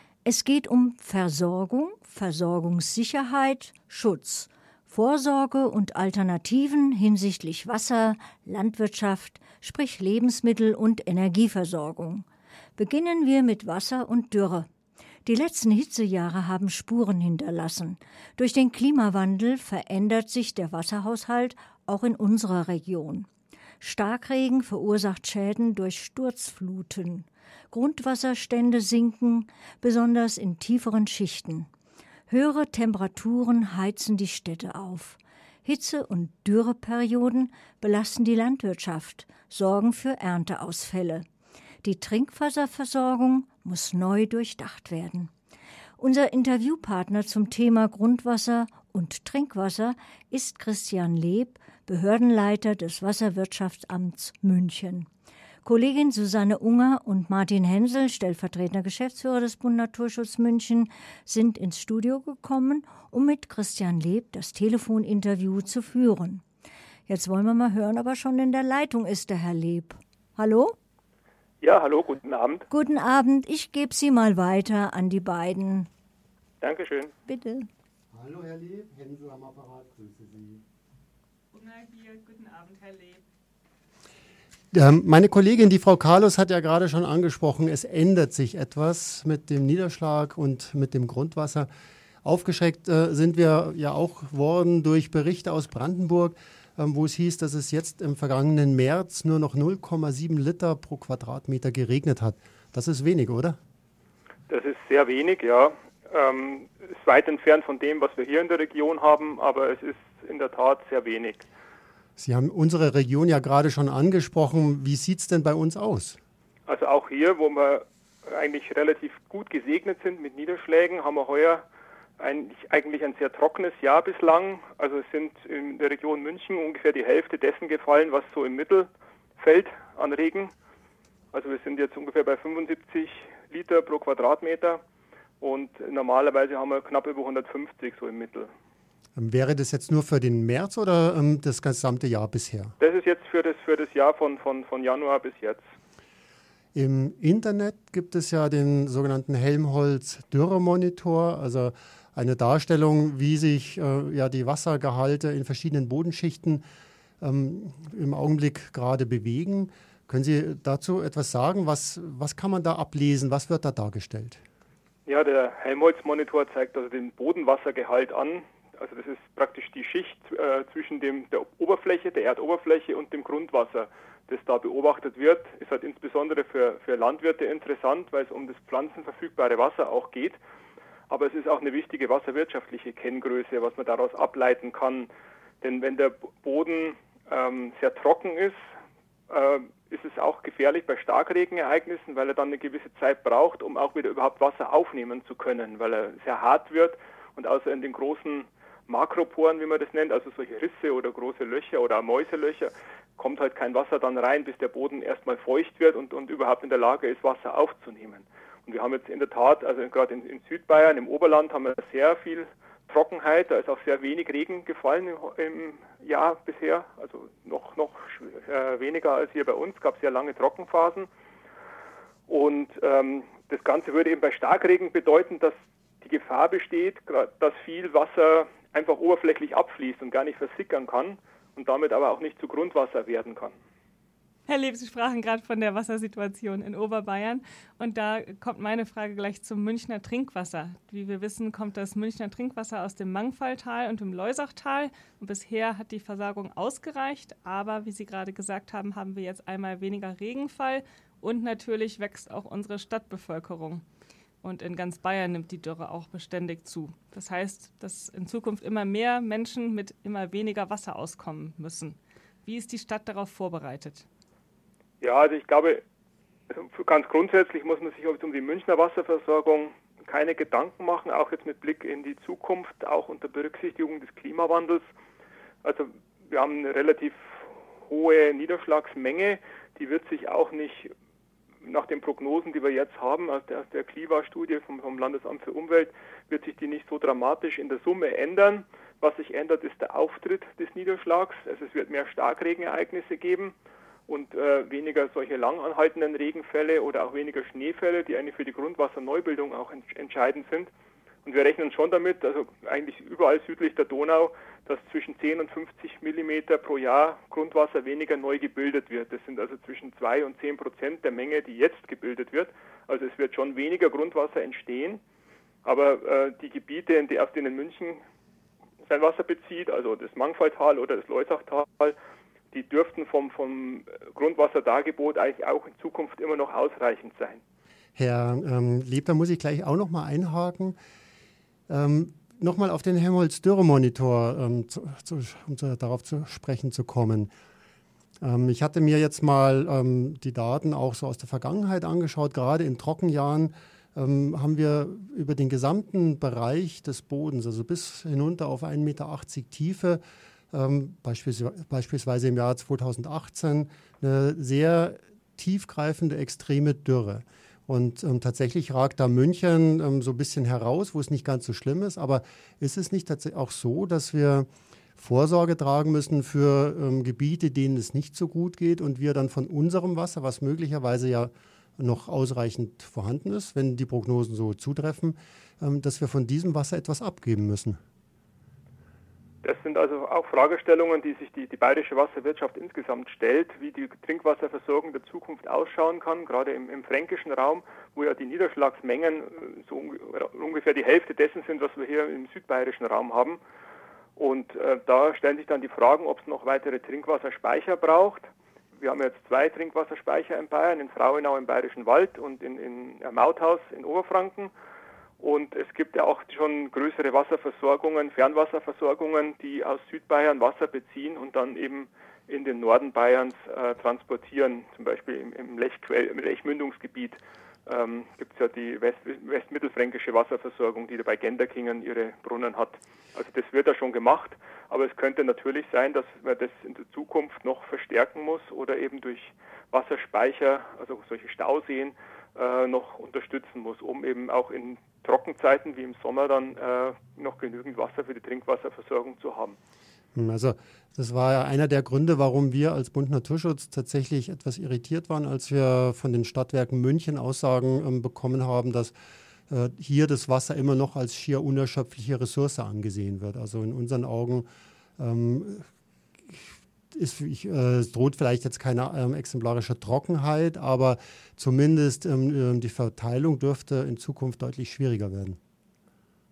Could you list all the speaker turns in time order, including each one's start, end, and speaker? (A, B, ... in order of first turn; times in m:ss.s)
0:00.2-0:12.2 A
0:12.8-0:14.7 A
0:15.2-0:23.3 A
0:23.8-0:31.7 A
0:32.3-0:41.2 A
0:41.8-0:45.3 A
0:46.0-0:55.1 A
0:55.6-1:06.4 A
1:07.1-1:10.8 A
1:11.6-1:12.7 B
1:12.7-1:15.9 A
1:16.6-1:17.2 B
1:17.3-1:17.7 A
1:18.1-1:20.6 C
1:21.5-1:23.2 D
1:24.7-1:31.7 C
1:32.2-1:43.6 C
1:44.5-1:51.5 B
1:52.2-1:56.2 C
1:56.7-2:01.7 B
2:02.2-2:10.5 B
2:11.3-2:14.8 B
2:15.4-2:18.5 B
2:19.2-2:22.8 C
2:22.8-2:25.6 B
2:26.7-2:36.6 C
2:37.2-2:44.4 C
2:45.1-3:00.4 B
3:01.1-3:05.1 B
3:05.6-3:08.7 B
3:09.3-3:41.1 B
3:42.3-3:53.6 B
3:54.5-4:13.8 D
4:14.4-4:24.1 D
4:25.0-4:25.8 B
4:26.5-4:34.9 B
4:35.6-4:40.9 B
4:41.6-4:53.6 B
4:54.1-5:00.7 B
5:01.2-5:15.0 B
5:15.6-5:18.0 B
5:18.8-5:22.0 B
5:22.5-5:27.4 B
5:28.0-5:30.8 C
5:31.7-5:37.3 C
5:38.2-6:17.8 C
6:19.4-6:33.4 B
6:34.2-6:44.5 B
6:45.2-7:19.6 B
7:20.2-7:29.0 C
7:29.5-7:35.7 C
7:36.3-7:45.4 C